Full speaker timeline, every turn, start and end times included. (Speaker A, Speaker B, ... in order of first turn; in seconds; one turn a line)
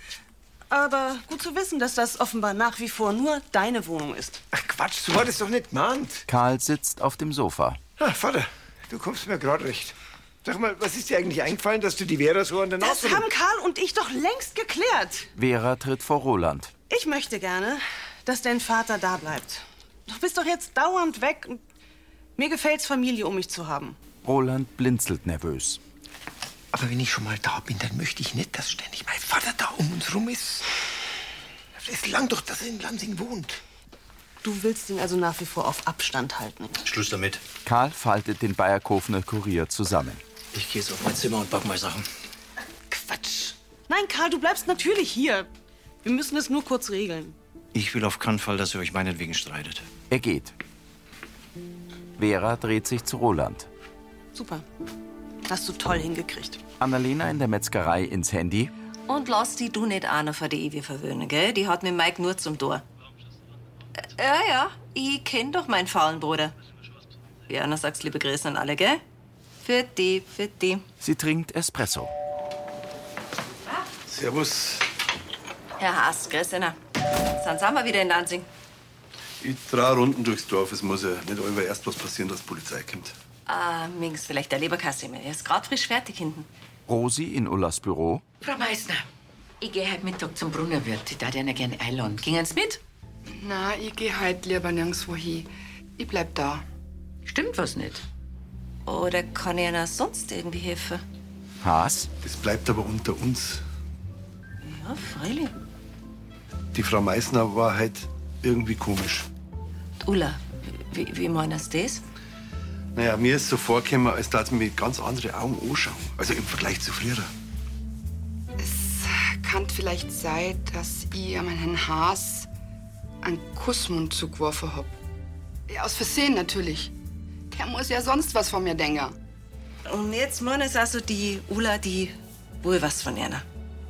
Speaker A: 0.7-4.4
Speaker B: 4.5-6.3
Speaker C: 6.3-7.8
Speaker B: 8.0-13.3
Speaker A: 12.8-15.3
Speaker C: 15.4-16.7
Speaker A: 16.9-21.6
Speaker A: 22.4-24.0
Speaker C: 24.2-25.8
Speaker B: 26.7-30.7
Speaker B: 31.8-33.6
Speaker A: 34.4-36.8
Speaker D: 36.8-37.4
Speaker C: 37.6-40.2
Speaker D: 40.5-42.1
Speaker A: 43.9-45.5
Speaker A: 46.0-47.4
Speaker D: 47.7-49.9
Speaker C: 50.1-50.5
Speaker C: 52.2-53.7
Speaker A: 54.4-54.6
Speaker A: 55.5-56.6
Speaker C: 56.8-58.7
Speaker E: 59.1-62.8
Speaker E: 64.0-66.5
Speaker E: 67.5-69.0
Speaker E: 69.6-70.8
Speaker C: 71.0-72.1
Speaker F: 74.1-74.9
Speaker E: 75.8-78.5
Speaker F: 79.4-83.1
Speaker E: 83.5-86.5
Speaker C: 86.9-88.2
Speaker G: 88.4-89.0
Speaker G: 89.6-92.8
Speaker H: 93.3-96.6
Speaker G: 97.2-98.0
Speaker E: 98.9-101.0
Speaker C: 101.6-102.1
Speaker F: 102.2-103.6
Speaker E: 104.6-105.5
Speaker F: 106.7-109.3
Speaker E: 110.0-112.0
Speaker F: 113.0-117.3
Speaker H: 118.6-122.5
Speaker H: 123.2-125.0
Speaker H: 125.7-126.9
Speaker H: 127.5-129.2
Speaker E: 129.9-133.4